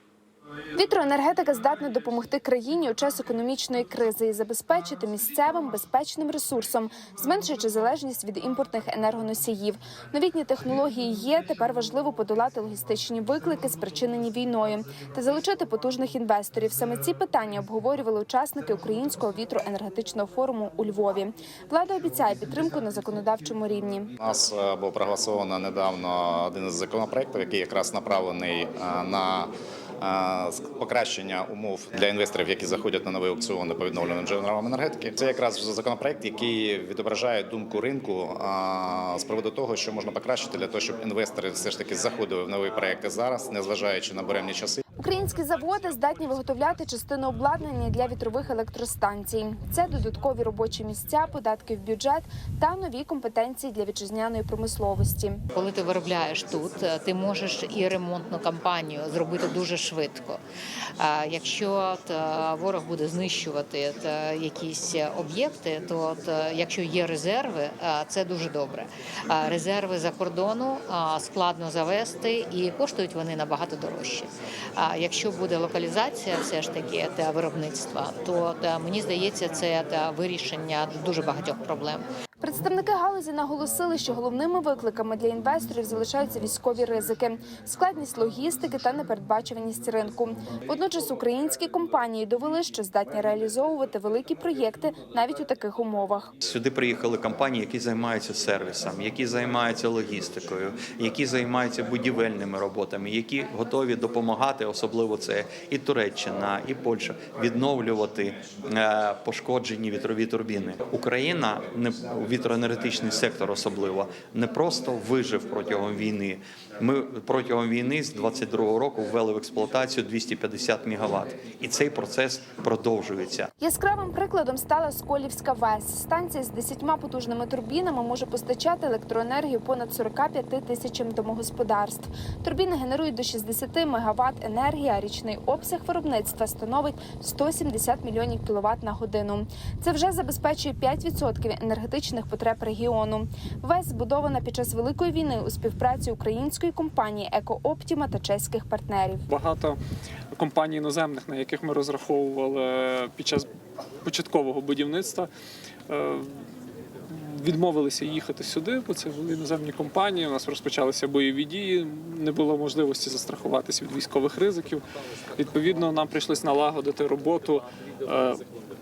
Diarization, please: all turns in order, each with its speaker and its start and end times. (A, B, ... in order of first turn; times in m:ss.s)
0:00.7-0:24.1 A
0:24.2-0:44.8 B
0:45.0-0:55.4 A
0:55.5-1:00.4 C
1:01.0-1:22.1 C
1:22.4-1:36.3 A
1:36.4-2:03.5 D
2:03.6-2:29.2 A
2:29.3-2:29.8 E
2:30.3-2:33.5 E
2:34.0-2:35.3 E
2:35.9-2:36.4 E
2:37.1-2:44.8 E
2:45.4-2:48.4 E